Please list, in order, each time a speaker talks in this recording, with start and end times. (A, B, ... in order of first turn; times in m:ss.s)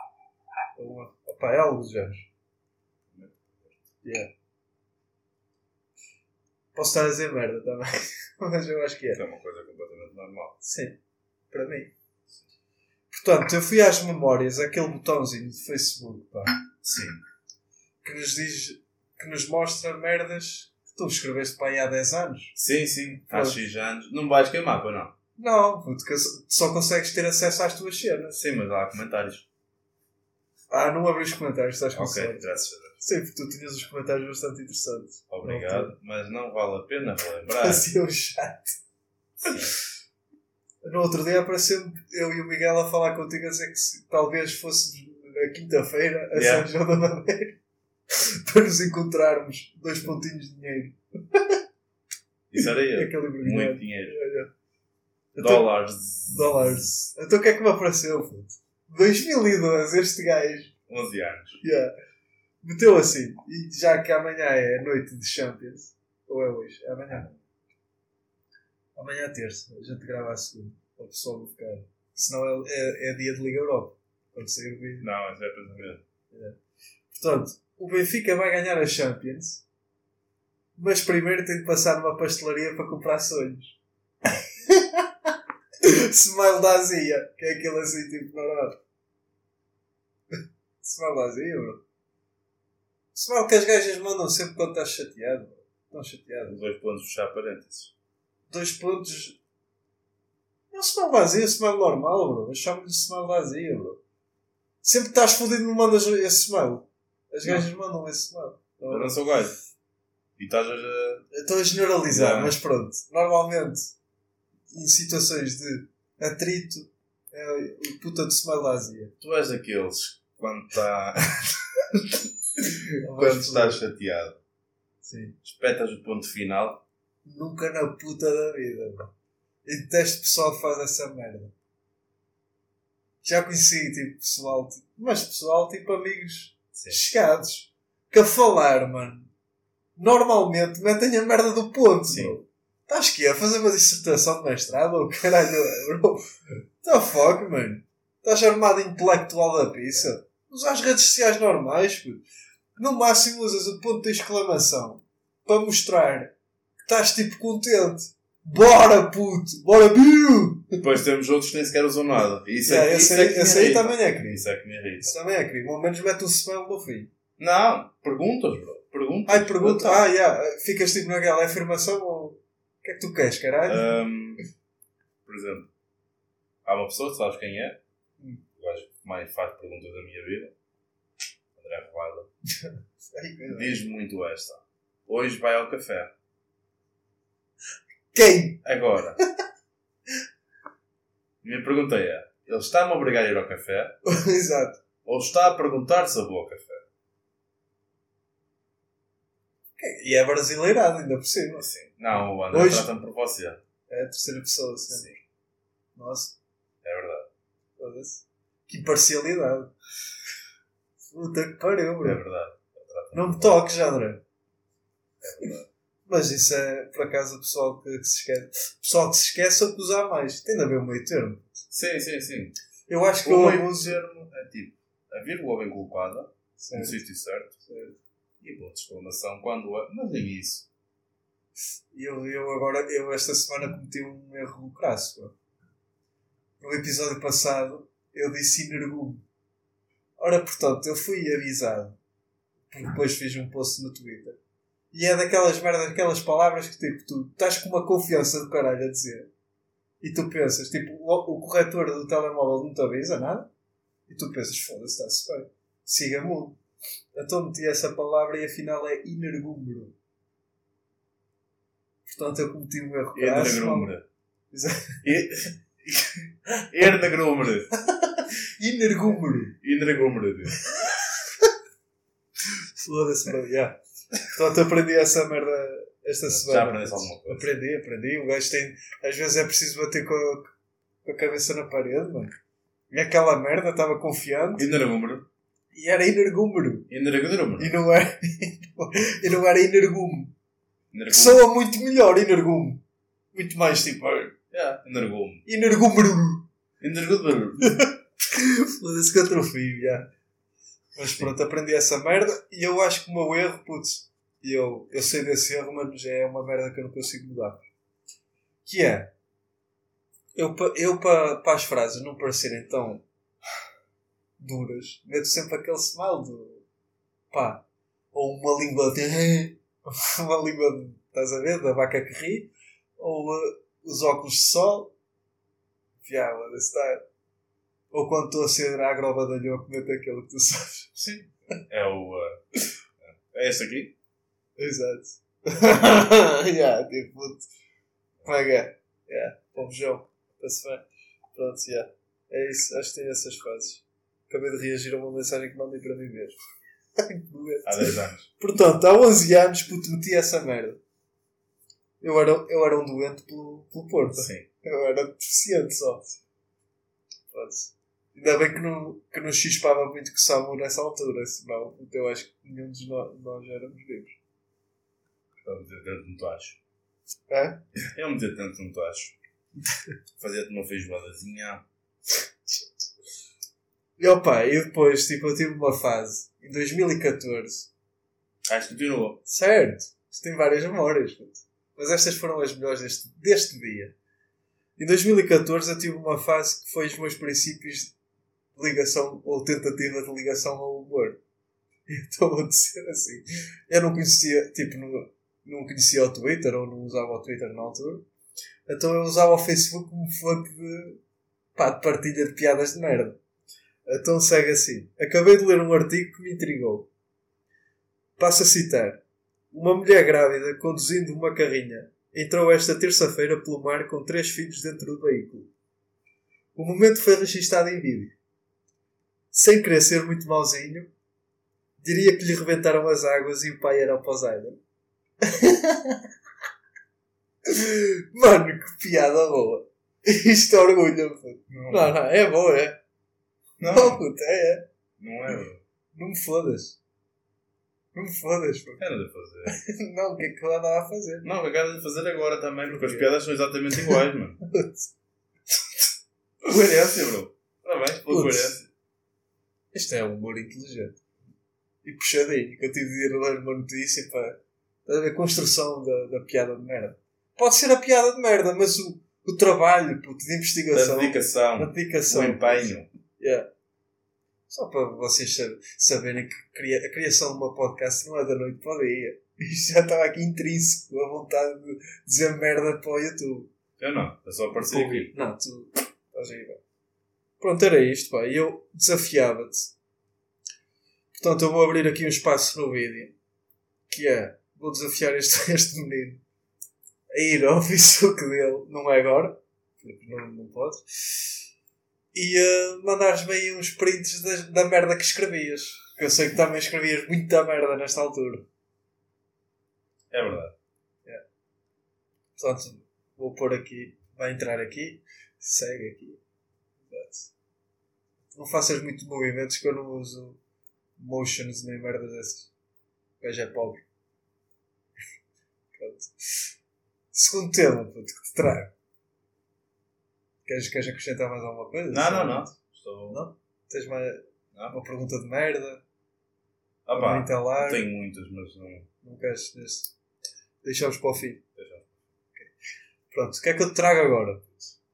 0:00.8-0:02.3 A
0:03.1-0:03.8 B
0:04.0-0:04.3 A
0:06.7-0:09.2 A
0:09.1-0:10.5 B
0:10.6-0:11.0 A
0:11.5-0:11.9 A
0:13.1-0:16.6 A
0:16.8-0:17.2 B
0:18.0-0:22.6 A
0:22.6-0:25.1 B
0:23.3-0:23.6 A
0:25.4-0:28.4 A
0:28.4-0:29.4 B
0:30.7-0:35.9 A
0:31.9-0:33.0 B
0:35.3-0:37.9 B
0:37.5-0:38.8 A
0:39.4-0:39.7 B
0:40.8-0:47.6 A
0:46.3-0:46.7 B
0:48.1-0:51.6 A
0:52.5-0:54.2 B
0:52.6-0:54.5 A
0:55.3-0:55.7 A
0:55.4-0:56.7 B
0:56.3-1:00.7 A
1:00.9-1:01.6 B
1:01.6-1:01.9 A
1:02.6-1:07.3 A
1:07.1-1:07.4 B
1:09.0-1:15.1 A
1:15.0-1:16.0 B
1:16.3-1:16.6 A
1:17.1-1:19.6 A
1:20.8-1:23.8 A
1:24.6-1:25.3 A
1:25.8-1:28.8 A
1:30.8-1:31.8 A
1:33.1-1:36.6 A
1:36.5-1:37.9 B
1:38.5-1:39.4 A
1:40.7-1:44.0 A
1:44.8-1:49.2 A
1:48.9-1:49.6 B
1:50.4-1:51.2 B
1:51.3-1:53.9 A
1:52.1-1:52.6 B
1:54.7-1:59.1 A
1:59.2-2:04.4 B
2:03.0-2:03.8 A
2:05.0-2:05.4 A
2:05.4-2:06.8 B
2:07.2-2:09.1 A
2:09.6-2:11.5 A
2:13.2-2:19.3 A
2:16.7-2:17.0 B
2:20.0-2:32.2 A
2:22.1-2:22.4 B
2:32.8-2:36.3 A
2:36.8-2:40.8 A
2:40.8-2:45.1 B
2:42.6-2:44.5 A
2:45.0-2:47.1 A
2:47.4-2:50.0 B
2:49.3-2:53.9 A
2:53.7-2:54.4 B
2:55.2-2:55.7 B
2:56.6-2:57.8 B
2:58.6-3:00.5 B
3:01.6-3:02.3 B
3:02.6-3:03.8 A
3:03.5-3:06.1 B
3:08.1-3:08.6 A
3:08.6-3:09.2 B
3:11.4-3:14.0 B
3:14.0-3:14.8 A
3:15.0-3:16.8 B
3:19.8-3:21.7 A
3:21.6-3:23.6 B
3:22.5-3:22.9 A
3:23.9-3:25.1 A
3:26.0-3:26.4 A
3:26.8-3:27.3 B
3:27.8-3:29.7 A
3:31.1-3:32.2 A
3:32.0-3:33.5 B
3:33.1-3:34.2 A
3:35.2-3:35.7 B
3:36.1-3:41.6 A
3:41.7-3:42.5 B
3:42.9-3:44.0 A
3:43.2-3:47.5 B
3:46.6-3:47.0 A
3:47.6-3:48.0 A
3:48.4-3:50.7 B
3:51.9-3:55.3 A
3:56.6-3:59.2 A
4:00.2-4:02.0 A
4:02.7-4:04.4 A
4:04.9-4:09.3 A
4:10.0-4:13.5 A
4:14.1-4:16.6 A
4:17.1-4:19.9 A
4:22.0-4:23.9 A
4:23.1-4:24.0 B
4:24.5-4:25.1 A
4:25.0-4:27.7 B
4:28.1-4:29.6 A
4:29.6-4:30.6 B
4:30.8-4:31.5 A
4:32.8-4:40.5 A
4:36.3-4:37.5 B
4:41.0-4:42.3 A
4:42.9-4:44.7 A
4:44.6-4:45.2 B
4:45.7-4:46.9 A
4:46.9-4:47.7 B
4:47.6-4:50.3 A
4:50.9-4:51.4 B
4:51.1-4:52.8 A
4:53.3-4:54.3 A
4:54.5-4:55.4 B
4:55.4-4:56.4 A
4:56.8-4:57.8 B
4:57.6-5:00.1 A
5:01.0-5:07.6 A
5:08.6-5:09.1 A
5:10.3-5:13.0 A
5:14.4-5:16.6 A
5:17.3-5:24.9 A
5:26.0-5:27.0 A
5:27.9-5:31.0 A
5:31.0-5:32.4 B
5:33.0-5:33.9 B
5:34.6-5:37.4 A
5:38.2-5:46.4 A
5:47.0-5:50.8 A
5:47.6-5:48.3 B
5:52.0-5:56.2 A
5:54.2-5:54.4 B
5:57.3-6:04.2 A
6:05.4-6:06.6 B
6:07.3-6:07.6 A
6:07.8-6:09.2 B
6:10.2-6:11.6 B
6:14.0-6:17.7 A
6:18.4-6:19.2 B
6:19.2-6:23.9 A
6:24.8-6:27.9 A
6:28.6-6:31.2 A
6:31.9-6:38.0 A
6:38.7-6:41.0 A
6:41.5-6:43.2 A
6:43.8-6:46.9 A
6:48.2-6:55.5 A
6:56.6-6:58.1 A
6:59.3-7:00.9 A
7:01.8-7:04.6 A
7:05.2-7:06.0 A
7:07.4-7:12.8 A
7:11.5-7:11.9 B
7:13.6-7:14.0 B
7:13.6-7:14.6 A
7:15.0-7:15.6 B
7:15.9-7:16.8 A
7:17.9-7:18.8 A
7:18.8-7:19.6 B
7:19.4-7:21.3 A
7:21.2-7:24.4 B
7:22.6-7:23.1 A
7:23.9-7:24.9 A
7:26.4-7:28.7 B
7:28.1-7:28.6 A
7:29.7-7:31.0 A
7:31.8-7:43.5 A
7:40.7-7:42.9 B
7:44.5-7:53.5 A
7:53.8-7:55.1 B
7:54.5-7:56.6 A
7:57.4-7:59.7 A
8:01.1-8:03.1 A
8:03.9-8:06.2 A
8:07.1-8:11.3 A
8:12.1-8:18.4 A
8:20.1-8:20.5 B
8:22.4-8:26.2 A
8:26.9-8:27.3 A
8:28.3-8:30.4 A
8:31.0-8:32.5 A
8:33.2-8:33.8 A
8:35.7-8:36.4 A
8:37.1-8:38.7 A
8:40.4-8:42.5 A
8:41.9-8:43.2 B
8:43.1-8:45.8 A
8:46.8-8:48.9 B
8:46.9-8:47.9 A
8:49.0-8:49.9 A
8:50.6-8:51.4 A
8:51.6-8:51.9 B
8:53.1-8:54.7 A